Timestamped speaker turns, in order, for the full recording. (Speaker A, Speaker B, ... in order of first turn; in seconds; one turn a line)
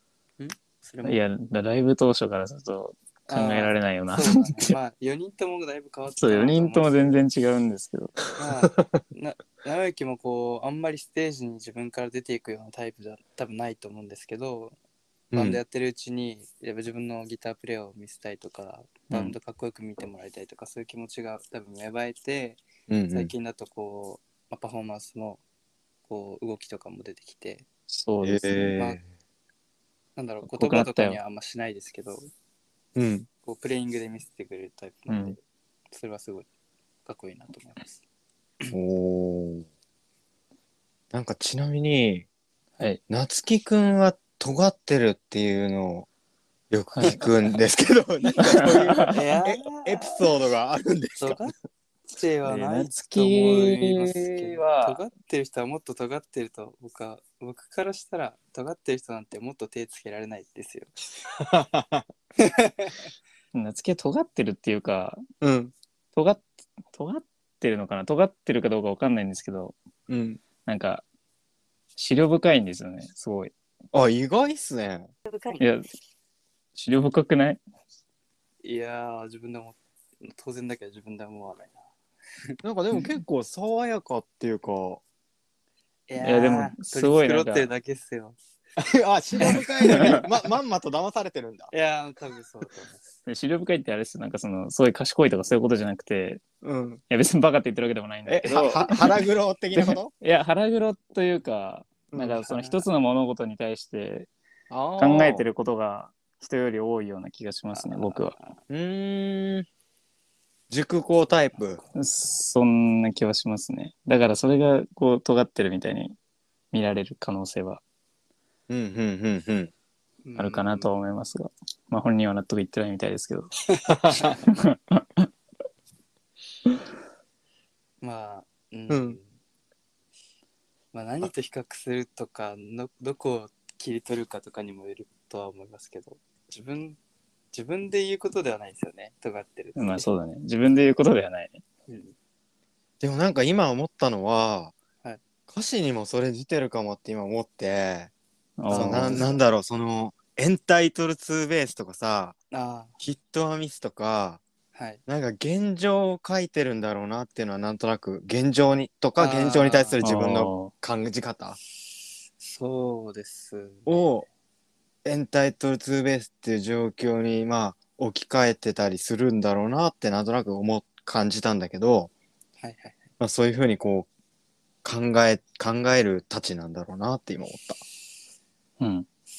Speaker A: 0.4-1.2
Speaker B: 1.0-4.8
Speaker A: 3.3-7.2
Speaker B: 6.2-8.2
Speaker A: 8.3-14.8
Speaker C: 15.3-15.6
Speaker A: 15.3-25.4
Speaker B: 19.1-19.3
Speaker C: 22.9-23.3
Speaker A: 26.1-27.6
Speaker B: 27.9-28.8
Speaker C: 28.2-29.0
Speaker A: 30.1-32.3
Speaker B: 30.4-31.2
Speaker C: 33.0-33.3
Speaker A: 33.4-35.4
Speaker B: 35.1-35.4
Speaker A: 35.9-36.5
Speaker A: 37.0-38.0
Speaker C: 38.7-39.6
Speaker C: 41.1-42.2
Speaker C: 43.1-46.1
Speaker C: 46.7-51.5
Speaker B: 47.0-47.3
Speaker B: 48.4-49.1
Speaker A: 49.1-50.2
Speaker A: 51.2-51.5
Speaker A: 52.1-60.9
Speaker B: 52.5-55.0
Speaker C: 61.3-62.0
Speaker A: 62.4-63.0
Speaker B: 63.5-65.2
Speaker C: 65.4-65.7
Speaker B: 66.1-69.7
Speaker C: 70.1-70.4
Speaker B: 70.6-71.0
Speaker B: 72.0-73.5
Speaker C: 73.9-75.1
Speaker B: 75.5-75.8
Speaker B: 76.7-77.6
Speaker A: 78.6-81.8
Speaker C: 82.6-85.0
Speaker A: 86.1-88.4
Speaker B: 86.2-87.7
Speaker C: 88.8-91.7
Speaker A: 89.4-90.2
Speaker A: 91.7-93.1
Speaker B: 93.2-96.4
Speaker C: 96.6-97.0
Speaker B: 97.1-99.2
Speaker C: 98.3-100.1
Speaker B: 99.7-104.3
Speaker C: 102.1-102.5
Speaker A: 102.5-102.8
Speaker C: 104.7-105.5
Speaker B: 105.0-108.3
Speaker A: 107.7-108.5
Speaker C: 108.7-109.7
Speaker C: 110.7-111.8
Speaker B: 111.9-116.2
Speaker B: 116.7-117.8
Speaker C: 118.7-119.7
Speaker A: 120.2-120.9
Speaker B: 120.4-123.5
Speaker C: 123.9-124.4
Speaker B: 124.5-125.3
Speaker A: 128.0-129.3
Speaker C: 128.9-129.2
Speaker A: 130.9-137.0
Speaker A: 137.5-140.1
Speaker B: 139.8-141.6
Speaker A: 141.9-142.1
Speaker C: 143.0-144.7
Speaker C: 145.5-148.1
Speaker B: 148.6-149.2
Speaker A: 148.7-149.4
Speaker C: 148.7-152.4
Speaker A: 152.5-152.9
Speaker C: 153.0-154.4
Speaker A: 154.7-155.0
Speaker C: 155.1-161.6
Speaker A: 159.2-160.0
Speaker B: 160.0-160.7
Speaker A: 162.4-164.0
Speaker C: 163.8-164.2
Speaker C: 165.0-172.1
Speaker A: 172.6-173.1
Speaker C: 173.2-174.1
Speaker C: 174.8-177.8
Speaker B: 178.8-179.1